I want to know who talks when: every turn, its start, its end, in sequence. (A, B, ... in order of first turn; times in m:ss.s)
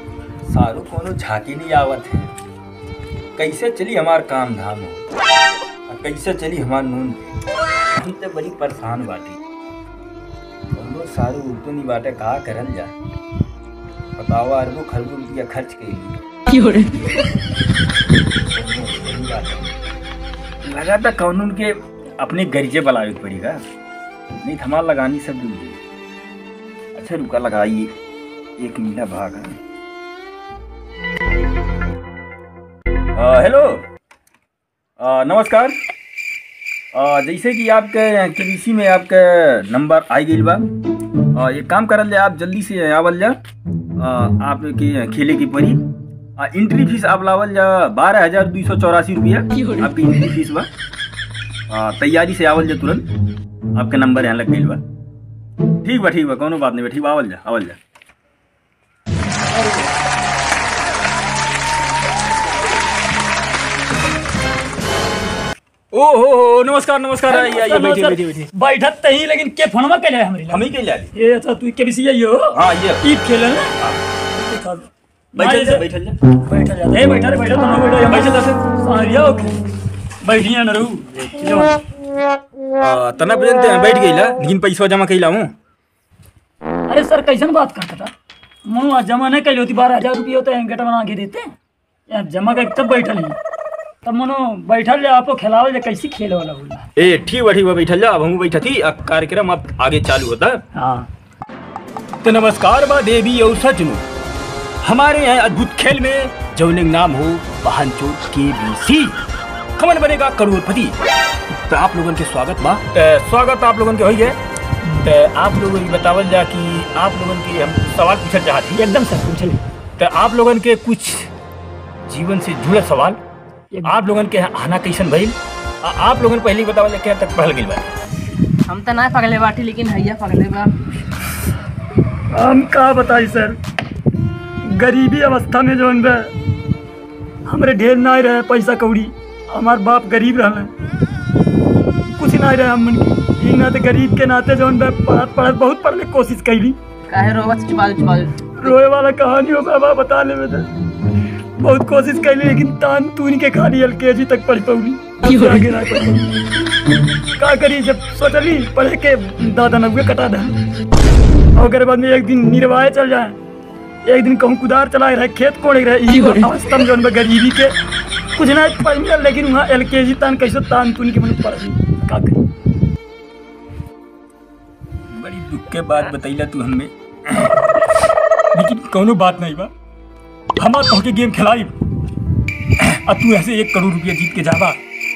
0:00.4-0:02.3 A
0:03.4-0:05.1 A
0:05.9-0:07.3 A
0:08.0-0:09.4 A
0:10.7-0:12.9 A
0:14.2-0:16.2 A
0:18.5-0:19.7 A
0:20.6-0:23.6 A
0:24.4-0:25.8 A
0:27.0-0:27.9 A
0:28.6-0:29.6 A
0:33.2-0:33.8 A
0:35.0-0:35.8 A
0:36.9-0:40.7 A
0:41.3-0:43.4 A
0:44.0-0:45.8 A
0:46.4-0:50.7 A
0:51.7-0:53.1 A
0:53.8-0:54.8 A
0:55.8-0:57.8 A
0:59.6-0:59.9 B
1:05.9-1:08.5 A
1:07.3-1:13.8 B
1:10.5-1:11.1 A
1:12.5-1:13.0 A
1:14.3-1:19.6 B
1:15.4-1:16.2 A
1:18.1-1:18.6 A
1:20.2-1:21.8 B
1:22.8-1:25.5 A
1:26.9-1:28.1 B
1:28.7-1:31.5 B
1:32.1-1:33.4 B
1:34.0-1:36.9 B
1:37.0-1:40.6 A
1:40.7-1:41.1 B
1:42.2-1:44.1 A
1:44.8-1:49.2 A
1:49.8-1:51.0 A
1:51.7-1:54.4 A
1:55.0-1:58.8 A
1:58.8-1:59.6 B
2:00.0-2:01.3 A
2:02.1-2:03.2 A
2:03.7-2:04.0 B
2:03.8-2:08.0 A
2:08.7-2:10.8 C
2:12.3-2:13.6 B
2:14.6-2:16.3 B
2:17.4-2:20.7 B
2:22.2-2:26.8 B
2:27.1-2:28.7 C
2:28.6-2:30.7 B
2:31.6-2:36.3 B
2:37.4-2:40.5 B
2:41.5-2:43.4 B
2:44.0-2:47.8 B
2:48.4-2:52.4 B
2:55.1-2:57.6 A
2:58.5-2:59.7 A
3:00.6-3:01.7 A
3:02.8-3:04.8 A